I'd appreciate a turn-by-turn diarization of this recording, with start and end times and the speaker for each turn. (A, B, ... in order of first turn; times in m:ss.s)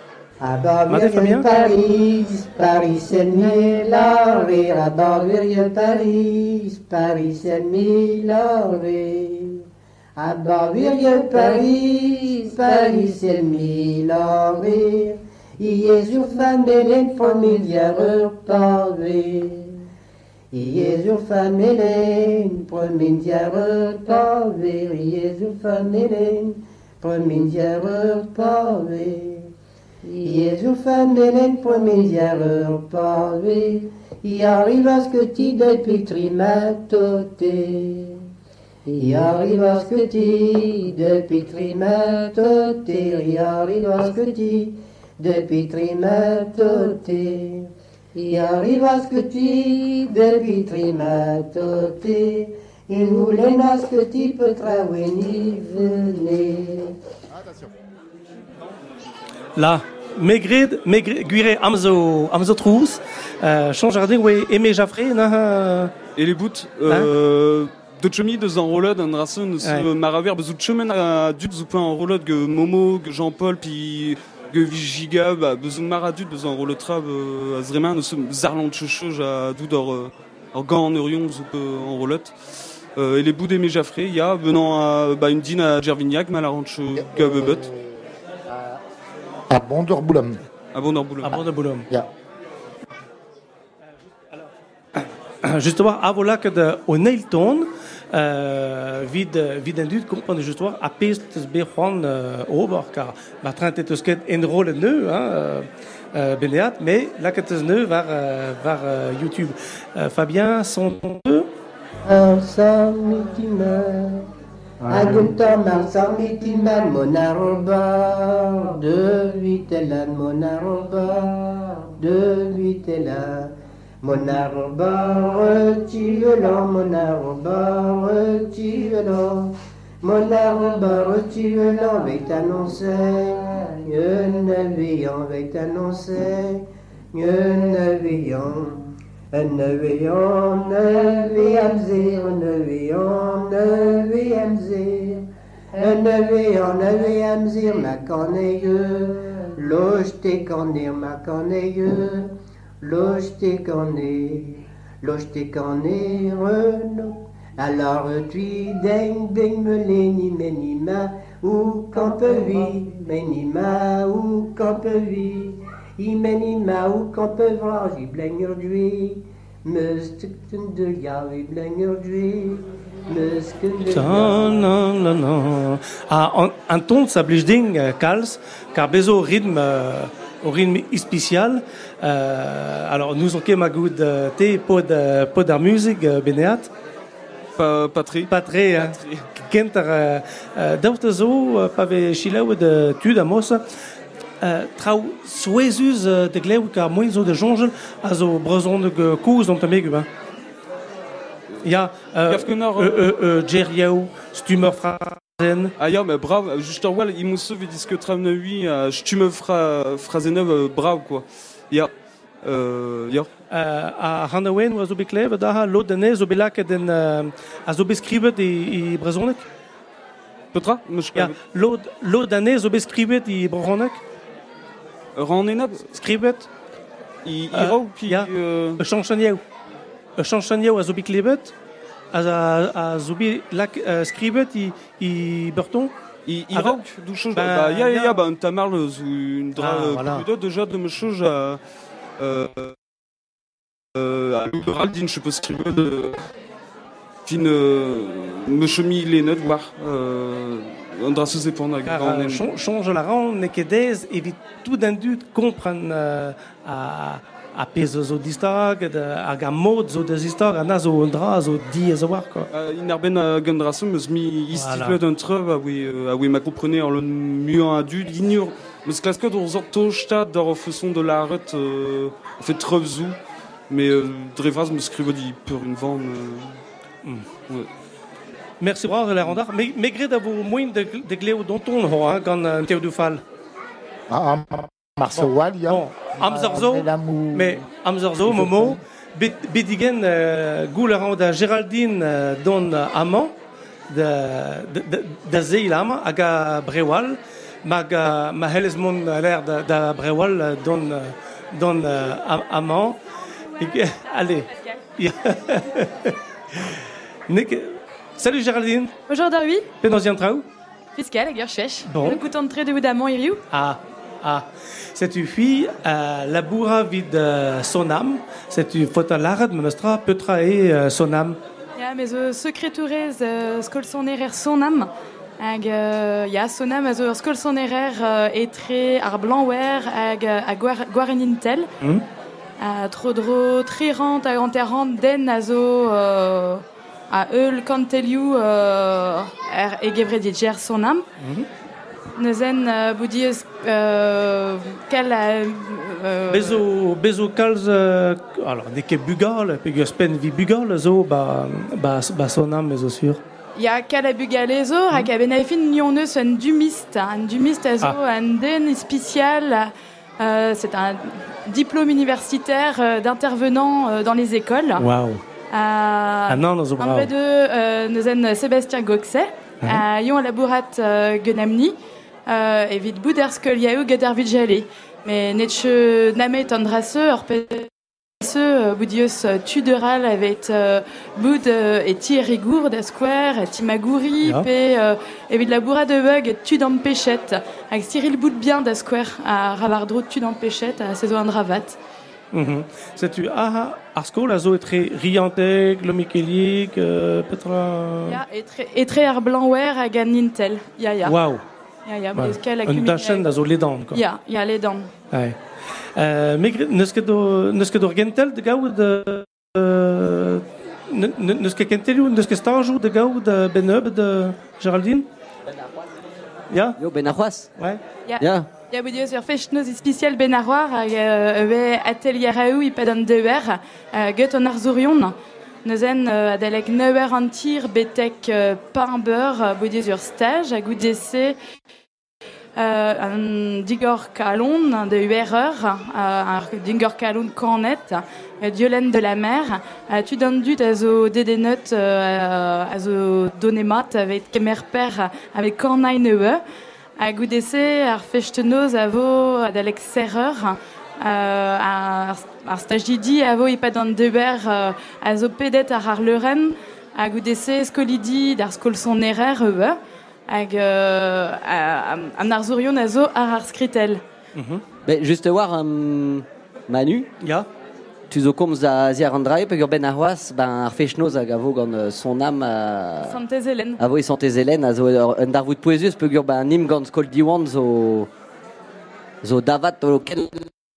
0:00.4-0:09.6 A
0:00.9-0:01.5 B
0:10.2-0:19.8 A
0:20.5-0:29.5 A
0:30.1-0:38.2 A
0:38.9-0:56.9 A
0:59.6-1:05.9 B
1:06.2-1:22.3 C
1:23.0-1:27.7 C
1:26.9-1:28.8 D
1:29.5-1:30.4 D
1:30.7-1:31.4 C
1:31.2-1:31.9 B
1:34.3-1:51.5 B
1:52.0-1:54.2 A
1:54.9-2:03.5 A
2:04.0-2:32.3 A
2:32.8-2:54.7 A
2:53.9-3:06.7 B
3:07.6-3:09.3 C
3:08.3-3:13.6 B
3:14.4-3:20.1 B
3:21.6-3:25.7 B
3:22.3-3:23.1 C
3:25.8-3:31.9 C
3:32.4-3:33.3 C
3:33.5-3:39.4 B
3:40.5-3:41.4 C
3:41.1-3:44.0 B
3:45.2-3:45.9 C
3:45.8-3:46.5 B
3:47.2-3:48.8 C
3:47.5-3:49.4 B
3:50.2-3:51.5 B
3:52.1-3:55.9 B
3:56.2-4:01.6 C
3:56.5-3:56.8 B
3:57.3-3:58.2 B
3:59.6-4:00.3 B
4:02.2-4:02.7 C
4:04.0-4:06.2 C
4:07.2-4:12.5 C
4:11.8-4:22.5 B
4:22.5-4:33.2 C
4:24.5-4:25.0 B
4:33.7-4:36.6 C
4:38.6-4:43.2 B
4:44.1-4:47.6 D
4:45.1-4:53.3 B
4:48.2-4:48.8 D
4:53.9-5:03.0 B
5:03.6-5:08.9 B
5:09.1-5:09.7 E
5:09.8-5:10.4 B
5:11.0-5:13.4 E
5:11.8-5:12.2 B
5:13.5-5:21.4 B
5:21.8-5:31.7 E
5:32.6-5:41.0 E
5:41.2-5:41.4 B
5:42.2-5:46.6 E
5:46.3-5:53.2 B
5:53.6-6:04.8 E
6:04.8-6:05.2 B
6:05.5-6:11.8 E
6:06.3-6:07.1 B
6:12.3-6:31.8 E
6:32.3-6:38.2 B
6:38.0-6:41.2 E
6:41.0-6:41.4 B
6:41.9-6:43.3 E
6:42.1-6:44.0 B
6:43.9-6:44.9 E
6:45.1-6:45.4 B
6:46.0-6:55.1 B
6:56.5-6:56.8 B
6:56.8-6:57.5 F
6:58.1-7:11.4 E
6:58.2-6:58.5 F
7:12.6-7:26.4 E
7:27.0-7:44.0 E
7:44.4-7:44.6 B
7:44.8-7:47.1 F
7:47.2-7:47.5 B
7:48.1-7:53.2 F
7:53.0-7:53.8 E
7:53.8-7:58.1 F
7:59.2-8:00.5 F